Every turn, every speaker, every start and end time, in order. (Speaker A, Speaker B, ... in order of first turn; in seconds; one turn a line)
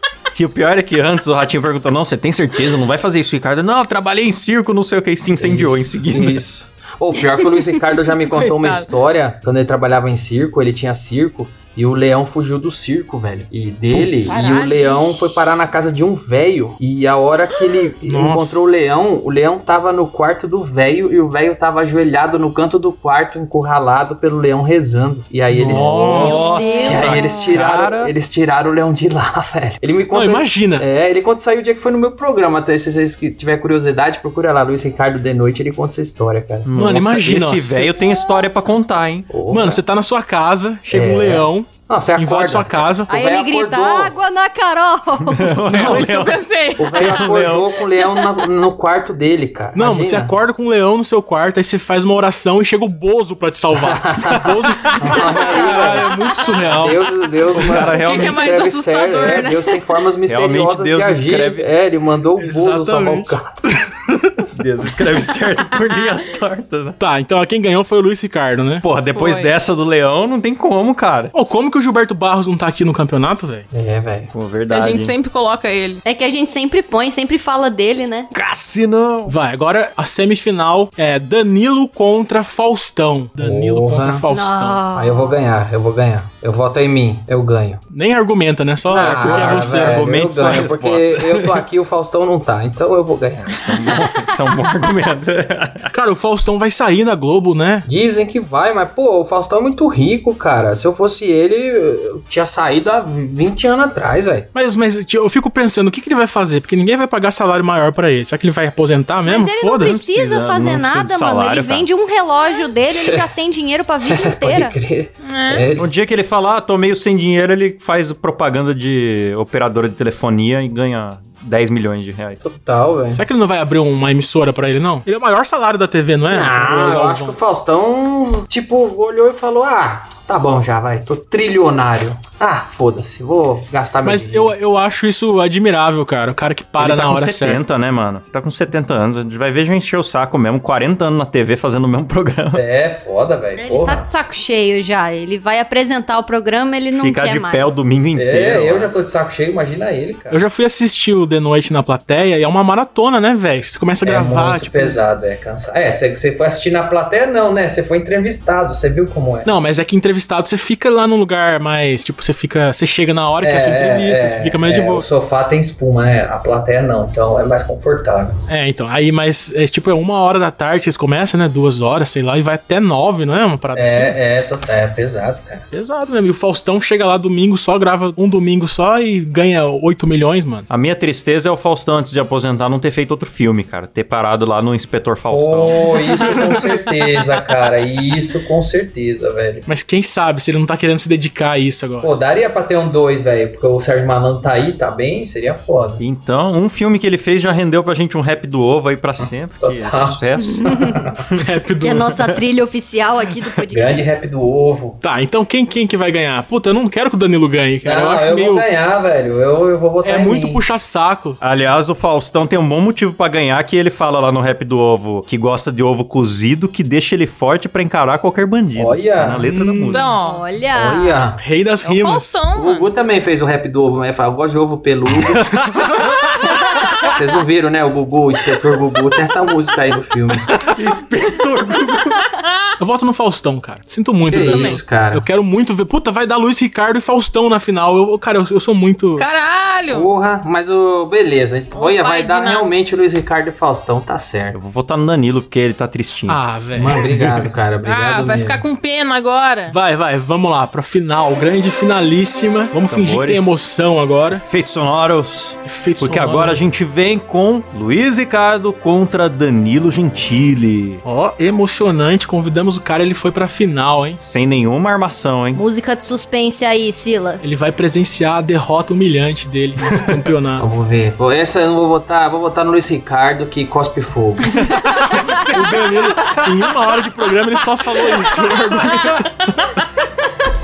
Speaker A: 0.3-6.4
Speaker B: 5.3-36.7
Speaker C: 8.2-8.9
Speaker C: 14.2-15.3
Speaker D: 14.3-14.6
Speaker E: 18.1-18.7
Speaker E: 25.5-26.6
Speaker A: 25.7-28.1
Speaker D: 25.9-27.3
Speaker C: 26.1-27.3
Speaker E: 30.1-30.9
Speaker A: 36.6-39.4
Speaker E: 36.8-38.0
Speaker B: 39.3-39.8
Speaker E: 39.5-43.1
Speaker B: 40.9-44.1
Speaker D: 43.1-45.6
Speaker A: 45.2-46.4
Speaker C: 45.6-47.3
Speaker E: 45.7-46.1
Speaker B: 46.8-50.4
Speaker A: 47.0-47.7
Speaker E: 49.7-57.0
Speaker B: 53.9-56.1
Speaker A: 54.4-55.2
Speaker B: 56.7-63.7
Speaker A: 57.5-58.5
Speaker C: 57.6-59.8
Speaker A: 60.3-61.7
Speaker E: 62.4-64.5
Speaker A: 64.5-67.0
Speaker E: 67.0-68.8
Speaker A: 68.8-71.3
Speaker C: 69.1-69.5
Speaker E: 71.3-73.7
Speaker B: 73.7-74.3
Speaker A: 74.3-75.1
Speaker C: 74.7-76.0
Speaker D: 76.0-78.3
Speaker A: 78.3-79.4
Speaker E: 79.3-84.8
Speaker B: 83.4-84.2
Speaker D: 84.3-85.4
Speaker B: 84.9-87.8
Speaker E: 87.9-90.5
Speaker B: 88.8-93.7
Speaker A: 88.9-91.6
Speaker A: 93.5-95.9
Speaker E: 95.9-97.9
Speaker B: 97.9-104.5
Speaker E: 104.5-110.0
Speaker D: 109.3-114.8
Speaker A: 109.8-111.9
Speaker B: 112.9-113.3
Speaker B: 114.1-115.9
Speaker C: 115.2-115.7
Speaker A: 115.8-122.4
Speaker B: 122.4-123.2
Speaker E: 123.1-127.4
Speaker B: 126.3-134.6
Speaker E: 134.0-137.6
Speaker A: 136.8-142.6
Speaker B: 142.5-144.1
Speaker D: 143.6-147.8
Speaker A: 147.0-148.9
Speaker B: 148.2-150.4
Speaker E: 150.3-155.0
Speaker B: 154.0-159.5
Speaker E: 159.4-165.1
Speaker B: 163.4-168.4
Speaker E: 168.5-174.2
Speaker B: 173.8-175.7
Speaker E: 175.7-180.7
Speaker A: 180.7-186.1
Speaker B: 185.3-189.7
Speaker E: 189.7-192.1
Speaker B: 192.0-196.0
Speaker A: 196.0-201.4
Speaker B: 199.6-201.2
Speaker D: 200.6-201.0
Speaker E: 201.4-202.1
Speaker D: 201.8-204.1
Speaker B: 203.7-205.0
Speaker E: 205.0-208.7
Speaker B: 207.8-210.6
Speaker E: 210.0-211.4
Speaker A: 211.4-220.1
Speaker B: 218.8-219.5
Speaker E: 219.4-220.1
Speaker C: 219.9-220.4
Speaker D: 220.2-221.2
Speaker B: 220.8-221.4
Speaker E: 221.4-222.4
Speaker C: 221.8-222.9
Speaker B: 222.5-225.6
Speaker A: 225.6-227.1
Speaker B: 227.1-230.5
Speaker A: 230.7-232.2
Speaker E: 232.8-239.3
Speaker B: 234.3-235.3
Speaker C: 234.4-234.8
Speaker C: 239.2-240.1
Speaker B: 239.9-244.6
Speaker C: 241.7-242.7
Speaker A: 244.5-246.4
Speaker E: 246.3-247.3
Speaker B: 246.8-248.7
Speaker C: 247.8-249.8
Speaker E: 249.7-254.4
Speaker A: 252.9-253.6
Speaker A: 254.4-261.0
Speaker E: 255.6-256.6
Speaker E: 261.0-264.2
Speaker A: 264.2-265.6
Speaker D: 265.6-267.6
Speaker E: 267.4-270.8
Speaker A: 269.8-270.3
Speaker B: 270.6-274.7
Speaker A: 274.5-276.9
Speaker E: 275.0-279.5